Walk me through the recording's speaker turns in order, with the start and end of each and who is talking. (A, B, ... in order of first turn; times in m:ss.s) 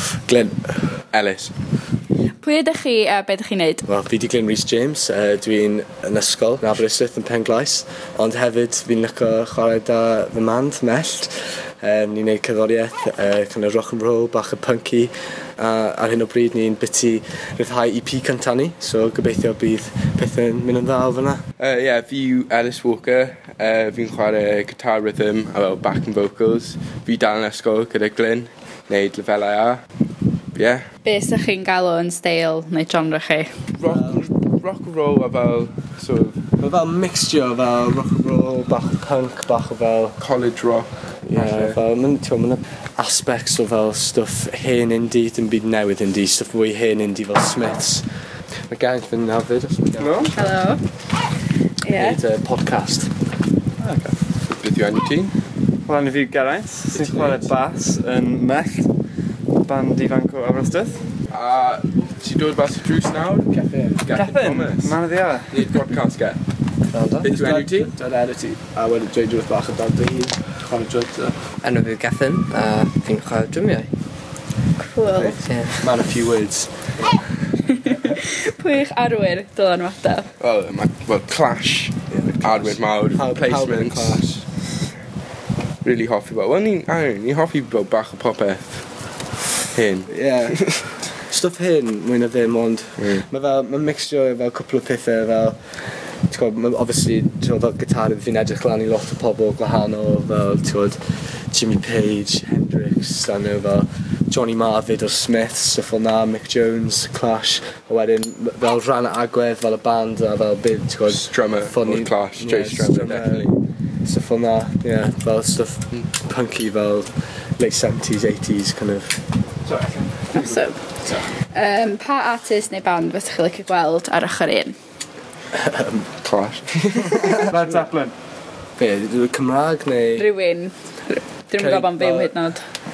0:00.1-0:00.8 A
0:01.1-0:01.5 B
0:02.4-0:03.8 C
0:03.8-0:21.4 A
0:21.6-0:29.8 B
0:30.5-0:30.8 B
0:31.0-0:33.5 C
0:33.7-0:36.4 B
0:33.8-0:34.3 A
0:36.6-0:40.2 A
0:40.2-0:41.8 B
0:41.3-0:48.0 A
0:48.7-0:50.5 A
0:50.0-0:50.3 D
0:50.3-0:50.8 C
0:51.8-0:52.2 C
0:51.9-0:53.1 A
0:53.8-0:54.2 D
0:54.5-0:55.3 B
0:55.8-0:58.9 D
0:57.0-0:57.5 B
0:59.6-1:01.1 D
1:01.3-1:05.0 B
1:03.5-1:04.0 A
1:04.1-1:05.6 D
1:05.5-1:06.4 B
1:06.9-1:07.3 E
1:07.2-1:07.9 B
1:07.3-1:11.4 A
1:11.6-1:13.9 E
1:14.8-1:15.4 C
1:15.1-1:15.9 E
1:15.8-1:16.7 A
1:17.7-1:20.3 C
1:20.4-1:24.2 B
1:22.1-1:24.4 A
1:25.8-1:28.8 B
1:29.7-1:30.8 B
1:30.1-1:35.6 A
1:36.3-1:41.0 A
1:41.5-1:59.2 A
1:51.1-1:53.5 B
1:59.7-2:00.5 D
2:00.3-2:00.8 C
2:01.5-2:04.8 C
2:05.5-2:06.1 A
2:06.2-2:07.4 B
2:07.1-2:08.1 A
2:08.8-2:10.3 A
2:10.2-2:12.6 C
2:11.6-2:12.3 A